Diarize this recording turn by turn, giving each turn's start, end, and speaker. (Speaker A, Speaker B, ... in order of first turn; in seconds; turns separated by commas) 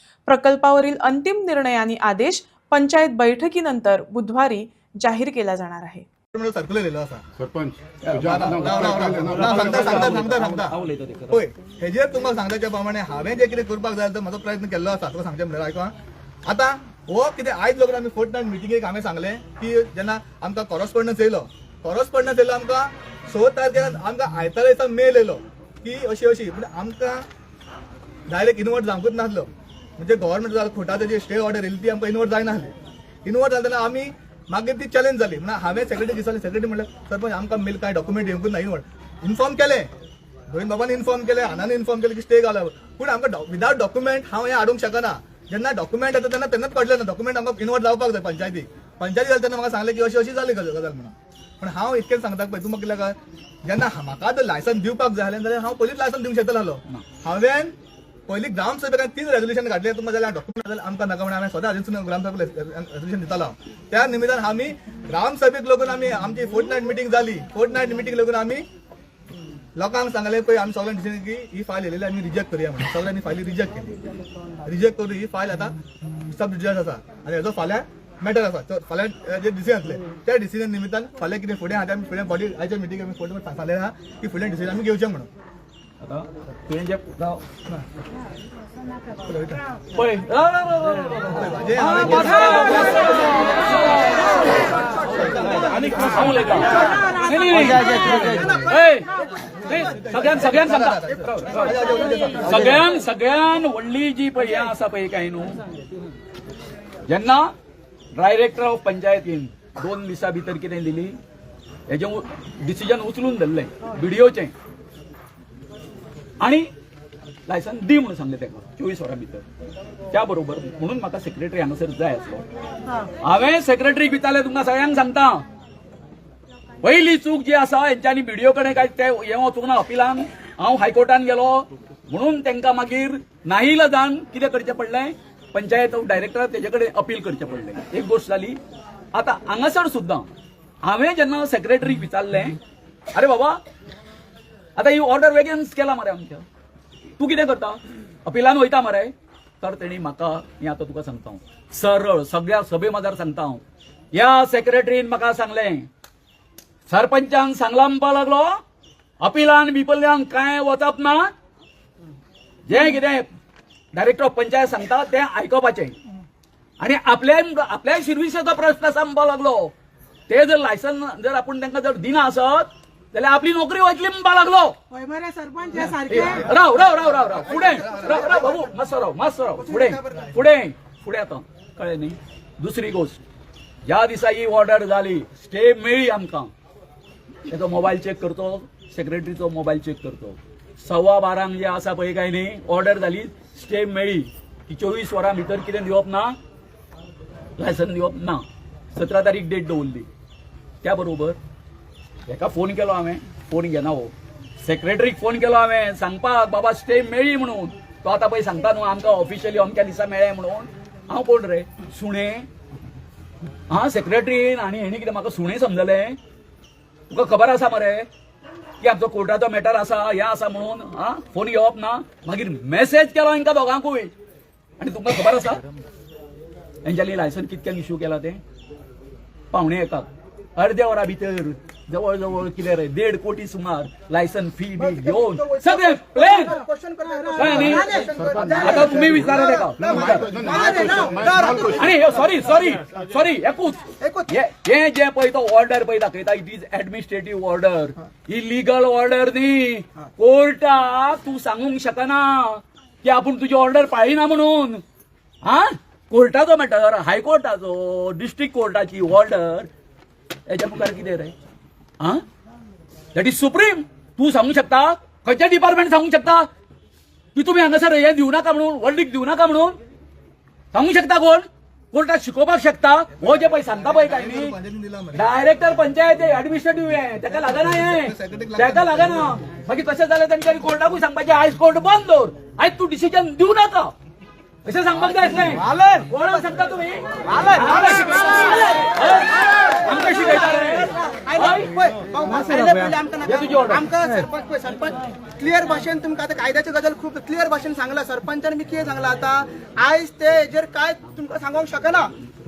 Speaker A: 0.3-6.0, Speaker B: 6.3-7.2, Speaker C: 8.0-11.4, Speaker B: 8.1-10.8, Speaker B: 11.3-15.9, Speaker B: 16.5-27.2, Speaker B: 28.3-32.7, Speaker B: 33.2-39.9, Speaker B: 40.5-57.7, Speaker B: 58.3-68.6, Speaker B: 69.8-74.0, Speaker B: 74.6-85.3, Speaker C: 86.0-87.4, Speaker B: 89.2-89.6, Speaker C: 89.9-94.3, Speaker B: 91.3-93.4, Speaker B: 95.0-96.1, Speaker C: 95.6-99.1, Speaker D: 96.7-99.8, Speaker C: 99.7-101.7, Speaker B: 99.7-102.8, Speaker C: 102.4-105.6, Speaker C: 107.1-107.5, Speaker C: 108.2-111.2, Speaker C: 111.9-114.5, Speaker C: 116.4-116.7, Speaker C: 117.5-119.4, Speaker C: 120.1-122.5, Speaker C: 123.2-125.4, Speaker C: 126.8-138.6, Speaker C: 139.1-140.3, Speaker C: 140.8-142.6, Speaker C: 143.1-143.6, Speaker C: 144.8-146.4, Speaker C: 147.2-155.9, Speaker C: 156.9-158.5, Speaker C: 159.2-161.3, Speaker C: 162.7-163.3, Speaker C: 163.9-165.9, Speaker C: 166.8-169.7, Speaker C: 170.3-174.7, Speaker D: 174.9-176.4, Speaker C: 175.8-183.2, Speaker B: 177.5-178.4, Speaker D: 177.7-178.7, Speaker D: 179.6-180.3, Speaker C: 183.9-186.5, Speaker C: 187.5-196.3, Speaker C: 197.6-200.1, Speaker C: 200.8-201.4, Speaker C: 202.3-212.5, Speaker C: 213.7-216.2, Speaker C: 217.1-218.1, Speaker C: 218.8-224.1, Speaker C: 224.8-225.7, Speaker C: 226.8-228.4, Speaker C: 229.5-236.6, Speaker D: 234.8-241.9, Speaker C: 237.3-240.5, Speaker C: 241.7-254.8, Speaker D: 244.0-244.3, Speaker C: 255.4-259.7, Speaker C: 260.5-261.3, Speaker C: 263.1-266.5, Speaker C: 267.3-269.8, Speaker C: 270.7-274.6, Speaker B: 273.2-275.2, Speaker C: 275.1-283.9, Speaker B: 277.7-279.1, Speaker C: 284.6-291.7, Speaker D: 290.3-302.1, Speaker C: 293.2-293.8